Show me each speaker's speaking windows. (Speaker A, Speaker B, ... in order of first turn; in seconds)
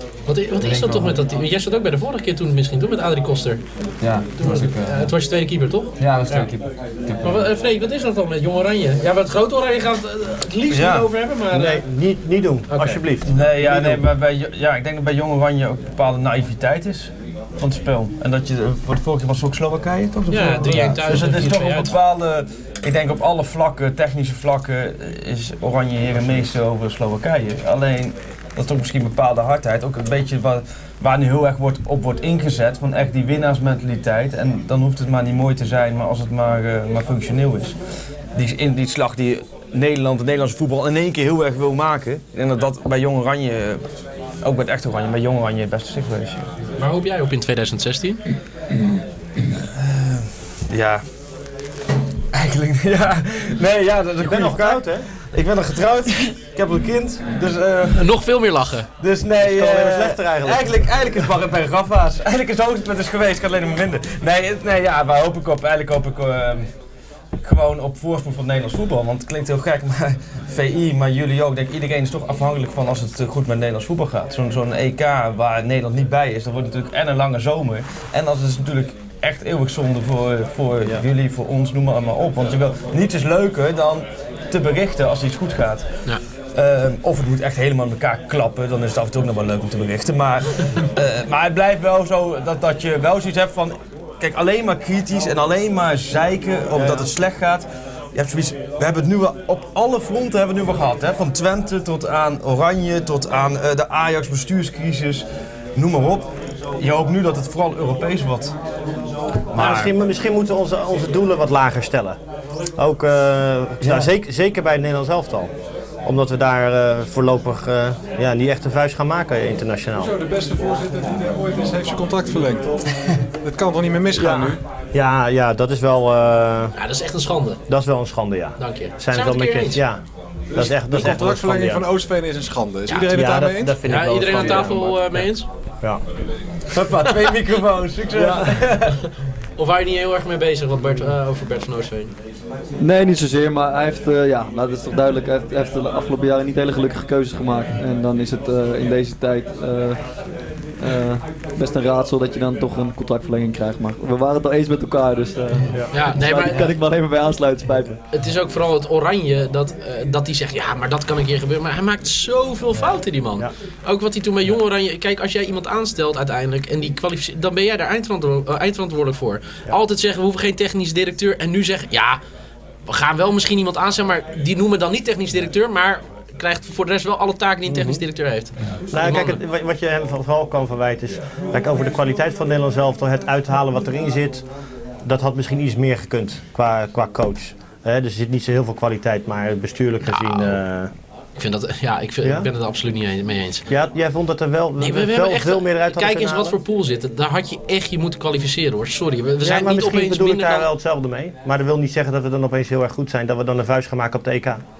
Speaker A: 0.2-6.5, 7.1-11.8, 12.7-13.0, 20.3-21.9, 46.8-48.2, 57.9-58.9, 126.8-127.6, 128.6-129.8, 133.8-135.5, 139.6-142.1, 155.9-156.7, 158.1-172.2, 172.9-179.4, 190.0-190.6, 191.4-193.7, 194.8-200.7
Speaker B: 0.3-1.2, 4.0-5.3, 6.0-7.5
Speaker C: 10.7-11.1, 13.2-37.7, 38.3-46.5, 49.7-51.0, 52.3-58.2, 59.0-66.7, 67.4-108.5, 109.5-109.9, 113.8-114.1, 136.7-139.0
Speaker D: 11.5-14.0, 54.2-55.1, 59.4-61.2, 109.5-112.2, 112.8-115.5, 116.0-120.1, 124.1-126.7, 127.7-131.9, 133.1-135.2, 138.1-138.4, 155.7-156.6, 177.7-178.0, 178.9-184.5, 185.0-190.9, 192.2-192.5, 193.7-196.5, 199.4-204.6
Speaker E: 120.0-122.7, 123.4-124.6, 130.5-134.7
Speaker F: 142.8-150.1, 150.8-158.0